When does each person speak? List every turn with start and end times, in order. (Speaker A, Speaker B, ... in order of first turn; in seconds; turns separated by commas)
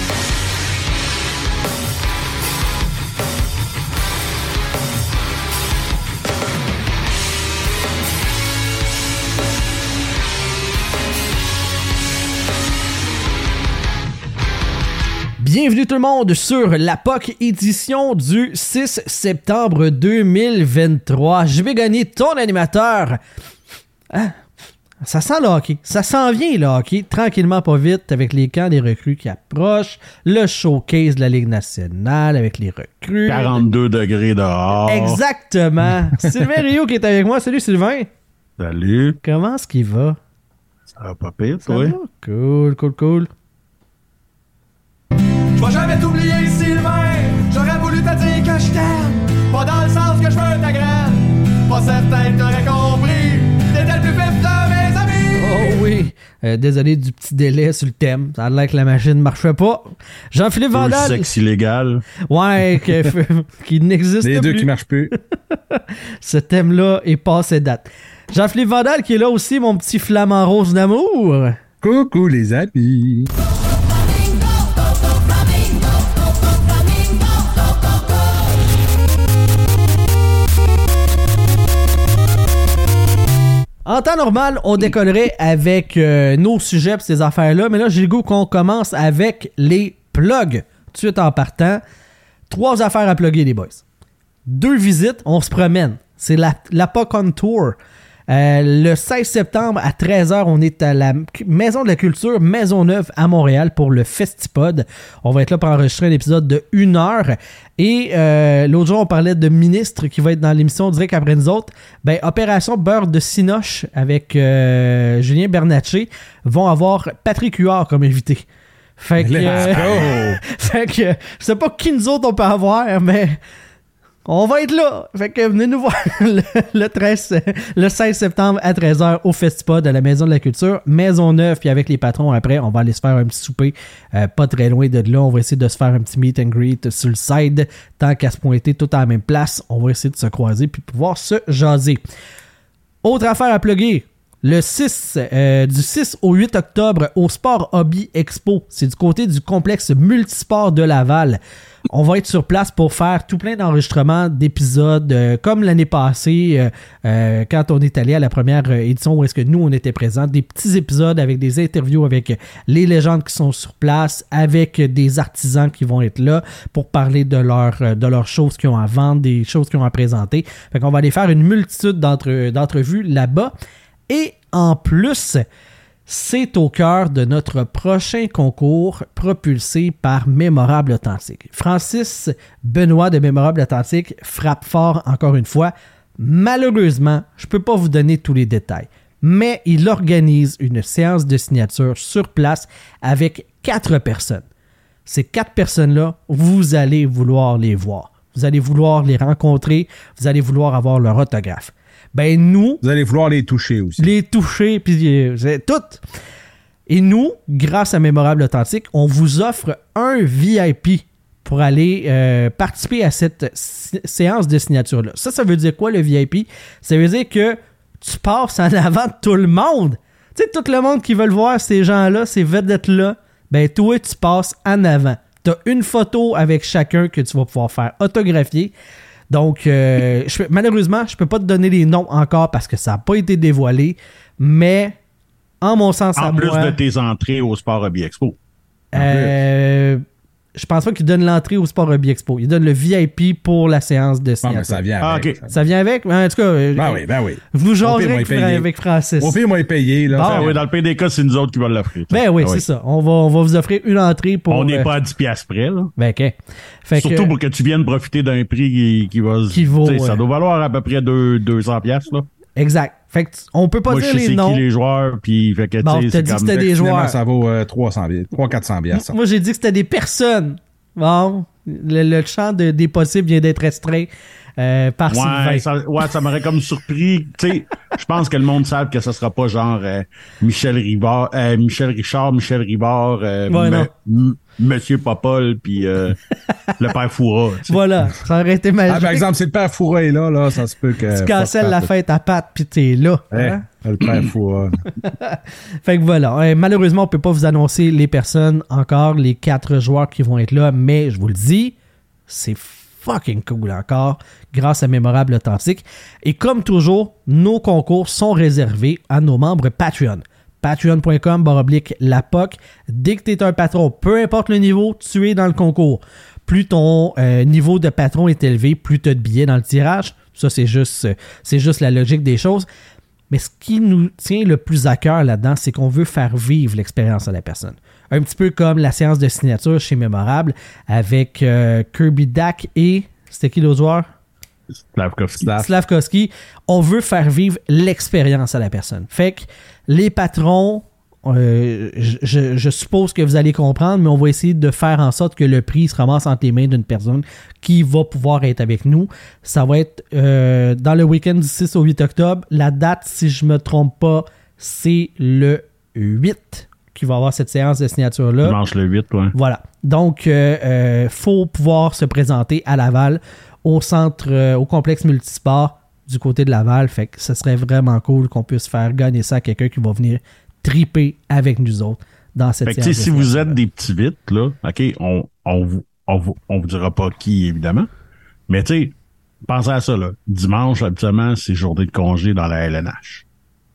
Speaker A: 15.4-23.2, Speaker A: 24.1-24.4, Speaker A: 25.0-33.6, Speaker B: 33.3-35.2, Speaker A: 34.9-38.1, Speaker C: 36.1-36.5, Speaker B: 38.6-39.2, Speaker A: 39.2-40.2, Speaker B: 40.9-42.0, Speaker A: 41.6-43.3, Speaker D: 45.5-55.8, Speaker A: 55.4-61.3, Speaker B: 60.7-62.0, Speaker A: 62.3-64.7, Speaker C: 64.2-65.1, Speaker A: 65.5-71.6, Speaker C: 71.8-73.3, Speaker A: 83.8-91.8, Speaker A: 92.5-93.8, Speaker A: 94.5-97.8, Speaker A: 98.3-118.5, Speaker A: 119.0-123.4, Speaker C: 119.2-120.4, Speaker B: 119.5-120.0, Speaker A: 124.2-142.0, Speaker A: 143.0-151.4, Speaker A: 151.9-173.5, Speaker A: 174.1-175.4, Speaker A: 176.1-194.4, Speaker A: 195.1-202.8, Speaker C: 202.8-204.1, Speaker A: 204.0-206.0, Speaker A: 206.9-228.7, Speaker A: 229.3-235.0, Speaker A: 235.6-236.8, Speaker B: 236.2-238.4, Speaker A: 238.9-240.0, Speaker C: 238.9-239.3, Speaker A: 240.5-244.8, Speaker C: 244.4-245.5, Speaker B: 245.0-245.4, Speaker A: 245.5-249.4, Speaker C: 246.8-248.7, Speaker C: 249.2-250.6, Speaker A: 250.1-250.5, Speaker B: 250.2-252.6, Speaker A: 252.1-254.9, Speaker B: 254.5-255.9, Speaker A: 256.0-257.3, Speaker B: 256.9-262.3, Speaker A: 259.5-260.2, Speaker A: 262.6-264.6, Speaker B: 263.9-266.6, Speaker A: 265.8-267.2, Speaker C: 266.5-269.2, Speaker A: 268.9-275.6, Speaker B: 275.1-286.2, Speaker A: 283.5-283.9, Speaker A: 286.5-286.8, Speaker B: 286.8-287.8, Speaker A: 287.7-289.3, Speaker C: 288.9-291.9, Speaker A: 291.0-293.6, Speaker C: 293.3-294.8, Speaker A: 295.0-301.7, Speaker A: 302.3-322.7, Speaker A: 323.3-334.1, Speaker B: 334.9-335.5, Speaker C: 335.4-335.7, Speaker A: 335.5-358.6, Speaker B: 358.4-359.3, Speaker A: 359.3-373.6, Speaker B: 372.6-377.9, Speaker B: 378.5-383.2